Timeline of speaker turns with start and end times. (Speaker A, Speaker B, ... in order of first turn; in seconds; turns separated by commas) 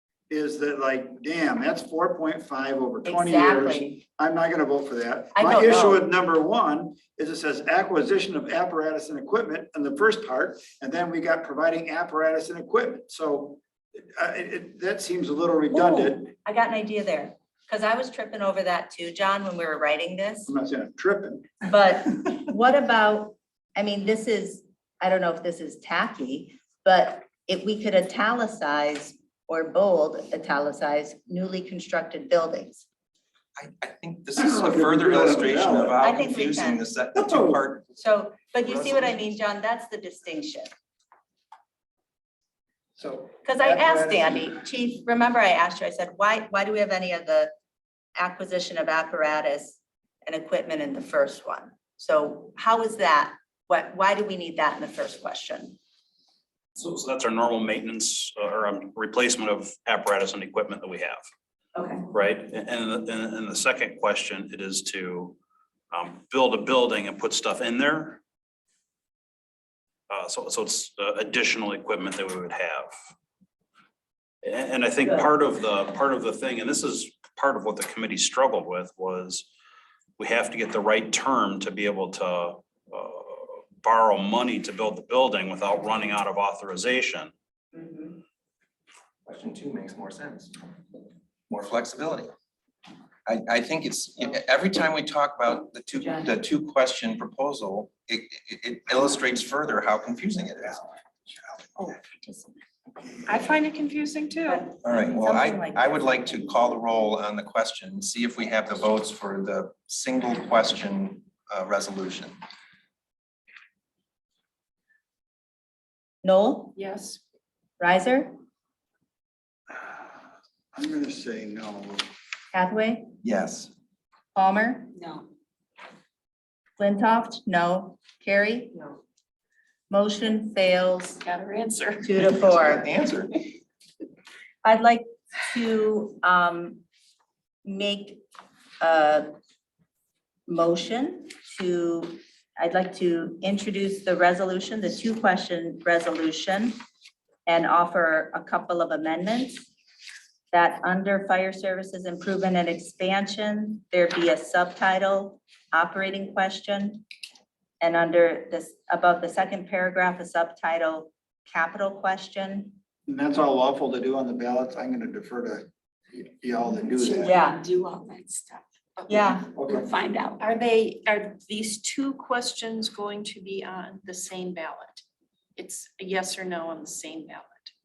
Speaker A: 0.3-13.6, Speaker B: 3.0-4.0, Speaker B: 5.3-6.0, Speaker A: 14.2-16.3, Speaker B: 15.7-20.5, Speaker A: 20.5-21.5, Speaker B: 21.6-32.8, Speaker C: 33.5-37.9, Speaker A: 34.4-36.0, Speaker B: 36.0-36.8, Speaker A: 37.1-37.6, Speaker B: 37.9-40.7, Speaker C: 38.7-39.0, Speaker A: 43.0-44.5, Speaker B: 43.4-47.5, Speaker B: 48.1-55.8, Speaker D: 56.8-61.2, Speaker B: 61.7-62.0, Speaker D: 62.1-65.4, Speaker D: 65.9-68.2, Speaker D: 70.1-72.9, Speaker D: 74.4-79.5, Speaker D: 80.2-87.3, Speaker C: 89.2-90.5, Speaker C: 91.5-92.3, Speaker C: 93.2-100.9, Speaker B: 101.8-102.6, Speaker E: 103.3-104.7, Speaker B: 104.5-106.5, Speaker C: 104.8-112.4, Speaker B: 116.2-116.8, Speaker E: 116.7-117.2, Speaker B: 117.8-118.3, Speaker A: 120.7-122.0, Speaker B: 122.5-123.1, Speaker C: 123.2-123.7, Speaker B: 124.3-124.9, Speaker F: 124.9-125.3, Speaker B: 126.8-128.8, Speaker B: 129.9-131.2, Speaker E: 131.2-132.2, Speaker B: 132.0-132.8, Speaker C: 132.2-133.3, Speaker B: 134.6-136.8, Speaker B: 137.6-138.2, Speaker B: 138.8-139.3, Speaker B: 140.5-146.8, Speaker B: 147.4-149.7, Speaker B: 150.5-157.0, Speaker B: 157.8-162.7, Speaker A: 163.1-167.3, Speaker F: 166.7-170.4, Speaker B: 167.2-167.6, Speaker B: 169.1-169.5, Speaker A: 169.6-169.8, Speaker E: 170.4-175.0, Speaker E: 175.6-177.7